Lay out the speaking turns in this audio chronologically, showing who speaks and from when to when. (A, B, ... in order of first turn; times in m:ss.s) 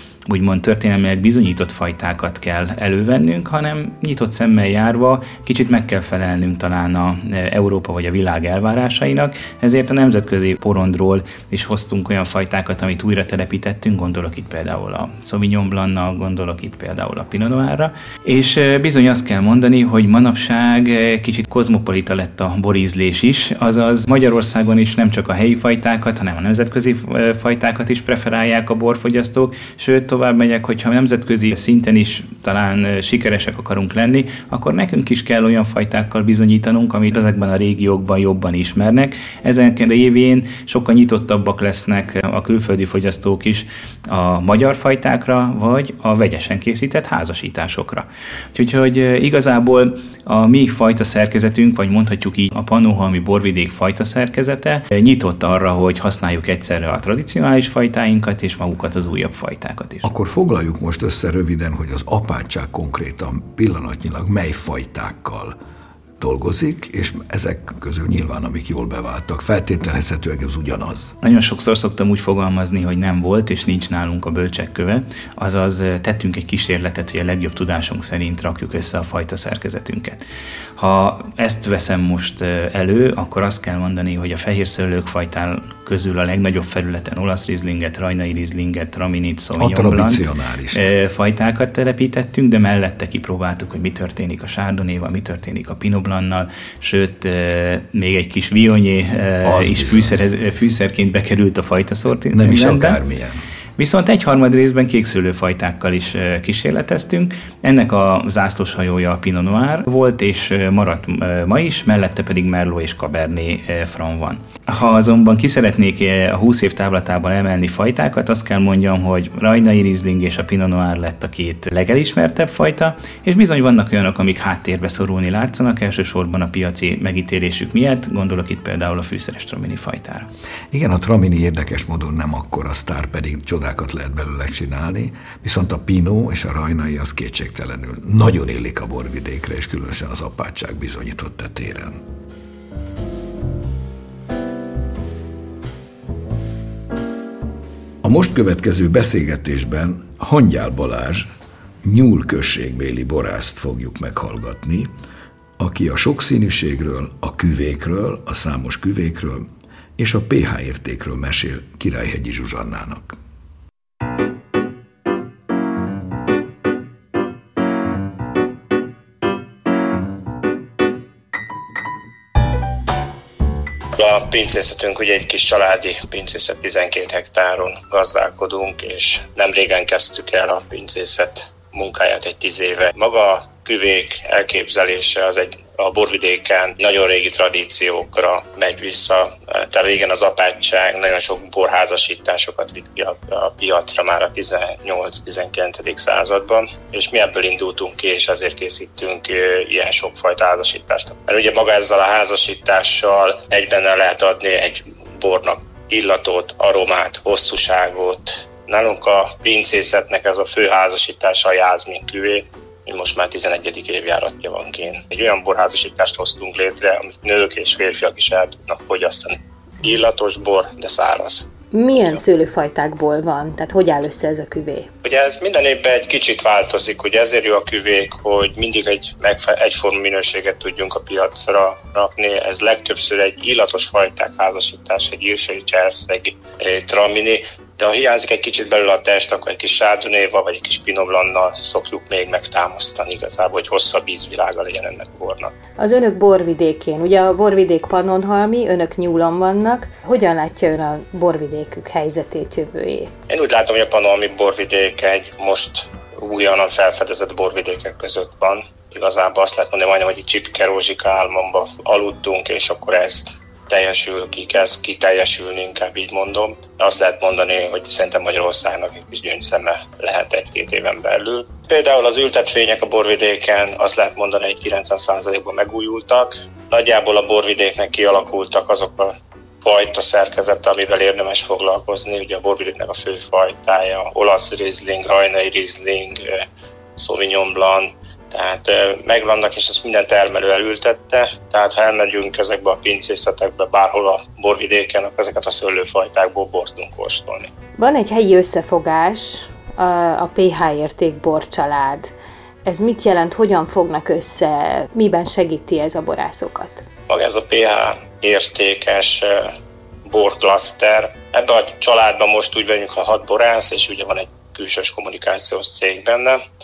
0:00.3-1:00.1 A
1:00.0-1:05.6 B
1:06.2-1:11.2 B
1:11.2-1:20.2 A
1:20.8-1:43.0 A
1:29.6-1:30.9 B
1:39.4-1:40.2 B
1:42.3-1:43.4 B
1:43.8-2:10.3 A
2:10.7-2:22.0 B
2:28.0-2:31.3 B
2:31.8-2:34.9 B
2:35.6-2:43.2 B
2:54.0-3:41.5 C
3:41.7-3:44.9 D
3:45.0-4:05.5 C
4:05.8-4:13.1 D
4:13.3-4:46.4 C
4:47.0-4:57.5 C
4:57.8-5:02.1 D
5:02.6-5:06.8 D
5:07.1-5:09.5 C
5:10.1-5:16.4 C